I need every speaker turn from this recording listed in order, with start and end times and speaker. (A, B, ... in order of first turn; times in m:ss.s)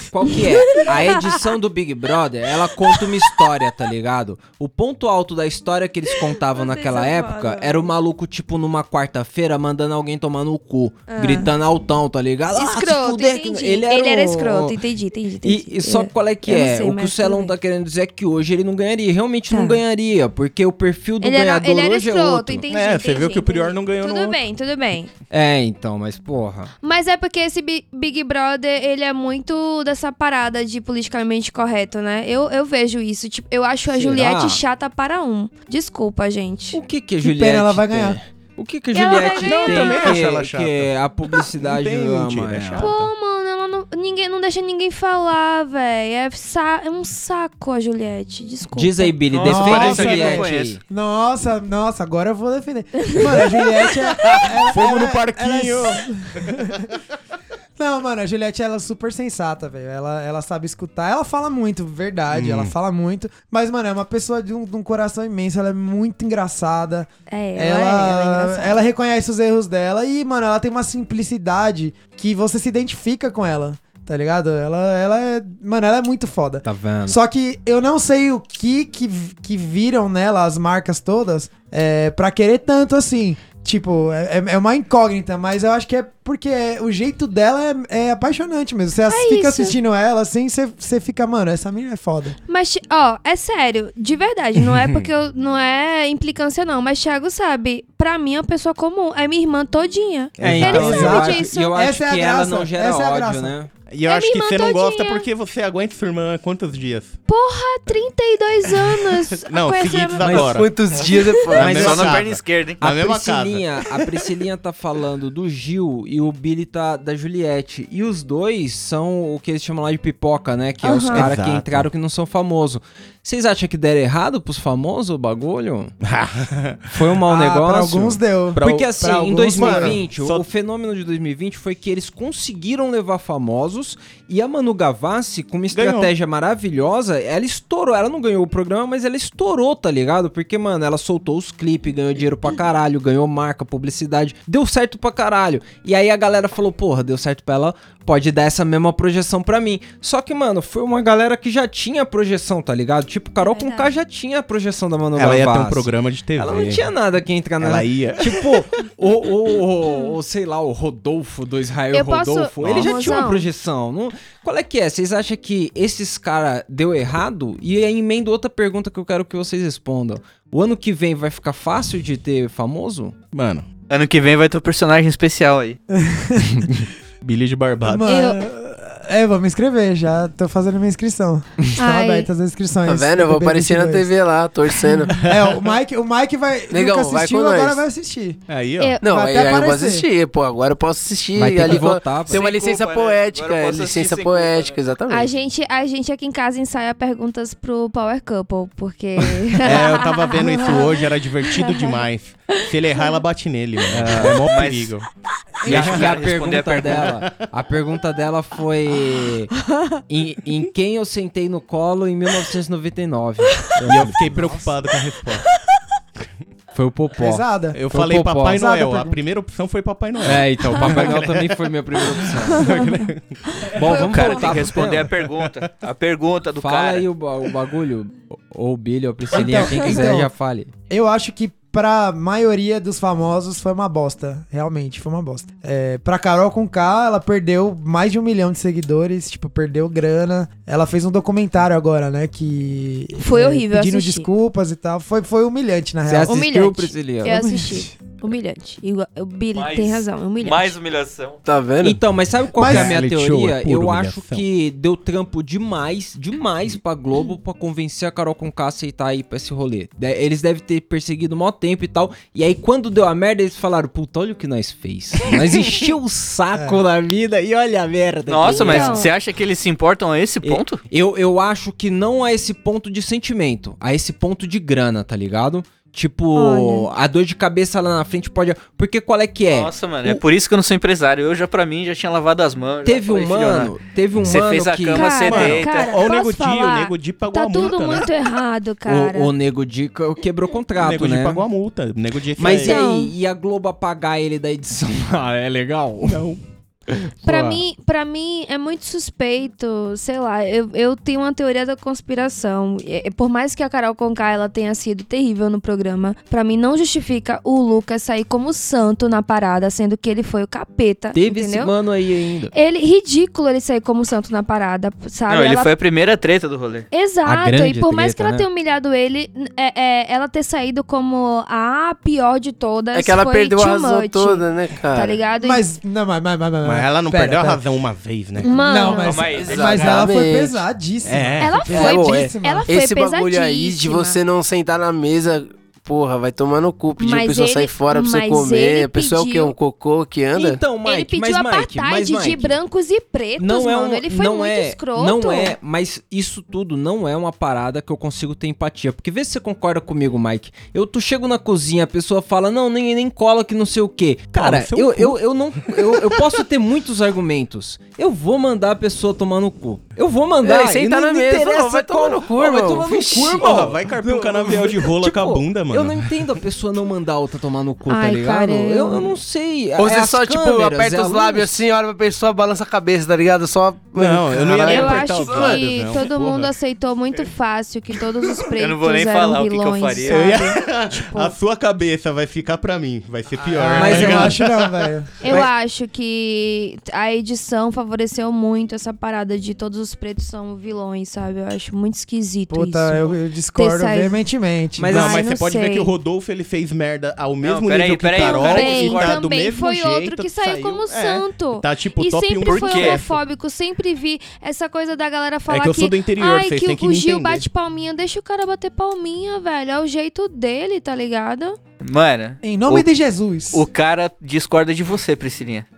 0:00.1-0:14.8 A
0:00.4-0:01.4 B
0:06.3-0:07.9 B
0:11.1-0:11.5 B
0:12.5-0:17.5 B
0:15.4-0:22.6 A
0:19.5-0:19.8 B
0:21.2-0:25.1 B
0:22.7-0:24.4 C
0:25.3-0:26.7 A
0:26.8-0:36.8 B
0:33.9-0:34.6 A
0:36.7-0:42.9 A
0:37.2-0:38.2 D
0:38.9-0:40.2 B
0:39.4-0:43.1 C
0:42.8-0:49.2 B
0:48.7-0:50.8 A
0:49.2-0:50.8 E
0:49.4-0:56.8 D
0:53.0-0:54.4 B
0:54.3-0:56.7 C
0:57.8-1:32.4 D
1:02.3-1:02.8 C
1:07.3-1:08.8 B
1:16.6-1:17.2 A
1:29.1-1:29.8 B
1:32.5-1:41.8 B
1:40.4-1:41.3 C
1:40.4-1:43.7 A
1:40.6-1:43.5 D
1:43.9-1:47.2 C
1:44.1-1:45.3 B
1:47.3-1:50.4 B
1:48.7-1:50.7 C
1:50.2-1:50.6 A
1:50.4-1:51.8 F
1:51.0-1:52.8 E
1:51.5-1:52.3 A
1:51.5-1:54.1 C
1:52.8-2:05.9 A
2:00.8-2:01.3 B
2:01.1-2:01.9 C
2:06.0-2:06.9 C
2:06.9-2:53.2 A
2:07.3-2:10.0 D
2:08.5-2:09.0 C
2:09.5-2:10.5 C
2:15.7-2:16.1 C
2:33.4-2:33.9 B
2:35.2-2:36.9 C
2:37.6-2:38.6 C
2:41.9-2:43.5 B
2:42.6-2:43.2 C
2:53.3-2:53.7 C
2:53.9-2:55.8 E
2:55.9-2:56.8 D
2:57.2-2:58.1 C
2:57.9-3:04.1 D
2:58.0-2:58.4 B
3:01.8-3:02.3 B
3:02.8-3:05.2 F
3:05.1-3:08.4 D
3:05.3-3:05.6 C
3:06.7-3:07.8 F
3:08.5-3:09.0 C
3:08.8-3:09.0 B
3:09.0-3:15.3 F
3:09.0-3:10.1 D
3:11.4-3:12.4 A
3:12.2-3:14.8 E
3:15.1-3:22.0 B
3:19.6-3:25.1 C
3:22.6-3:23.2 B
3:23.9-3:24.4 A
3:24.4-3:25.0 E
3:25.6-3:29.6 A
3:25.6-3:27.1 E
3:25.7-3:26.2 C
3:26.9-3:27.4 C
3:30.1-3:34.2 A
3:33.9-3:35.5 C
3:34.2-3:34.7 D
3:36.7-3:38.6 A
3:37.2-3:37.8 D
3:37.7-3:43.4 C
3:38.5-3:39.2 D
3:40.2-3:42.8 A
3:42.6-3:44.8 B
3:43.7-3:45.2 A
3:43.8-3:47.1 E
3:45.2-3:45.5 C
3:46.6-3:50.7 A
3:49.3-3:50.3 D
3:50.9-4:06.4 D
4:03.2-4:04.3 B
4:06.1-4:07.4 A
4:06.3-4:10.8 B
4:07.3-4:07.9 D
4:09.5-4:11.4 E
4:11.5-4:12.0 F
4:11.8-4:29.1 A
4:12.6-4:13.0 D
4:12.6-4:14.4 C
4:28.3-4:30.8 E
4:28.5-4:29.1 B
4:30.4-4:40.2 A
4:36.3-4:36.9 B
4:39.5-4:45.9 E
4:42.8-4:45.2 A
4:44.9-4:49.3 B
4:45.3-4:48.1 C
4:48.9-4:51.4 A
4:50.8-4:52.8 C
4:52.4-4:56.2 A
4:52.4-4:53.1 B
4:56.0-4:56.4 C
4:57.0-4:57.6 A
4:57.2-5:11.7 B
4:57.3-4:57.5 C
5:11.1-5:12.5 A
5:12.5-5:15.7 B
5:15.3-5:16.9 E
5:16.9-5:25.6 B
5:17.2-5:18.5 A
5:22.9-5:25.2 F
5:25.4-5:27.6 D
5:26.6-5:28.5 C
5:28.4-5:29.3 B
5:28.4-5:32.7 D
5:29.0-5:30.2 E
5:29.3-5:30.6 F
5:31.0-5:31.6 C
5:31.4-5:34.2 B
5:31.7-5:40.6 F
5:37.0-5:39.5 B
5:40.3-5:42.6 A
5:40.8-5:45.6 B
5:43.4-6:11.5 A
5:54.3-5:56.2 C
6:00.4-6:03.4 F
6:03.4-6:06.2 C
6:07.9-6:09.2 B
6:09.8-6:15.6 F
6:14.0-6:16.5 C
6:14.6-6:21.4 B
6:18.5-6:20.5 E
6:20.1-6:25.5 C
6:23.4-6:25.4 D
6:23.8-6:24.4 A
6:25.2-6:34.2 B
6:32.5-6:35.1 D
6:34.8-6:35.3 A
6:34.9-6:43.2 C
6:35.0-6:35.9 B
6:37.4-6:39.3 E
6:38.2-6:51.6 B
6:42.4-6:43.0 E
6:45.5-6:47.5 C
6:51.8-6:52.9 E
6:52.4-6:53.7 D
6:53.5-6:55.7 E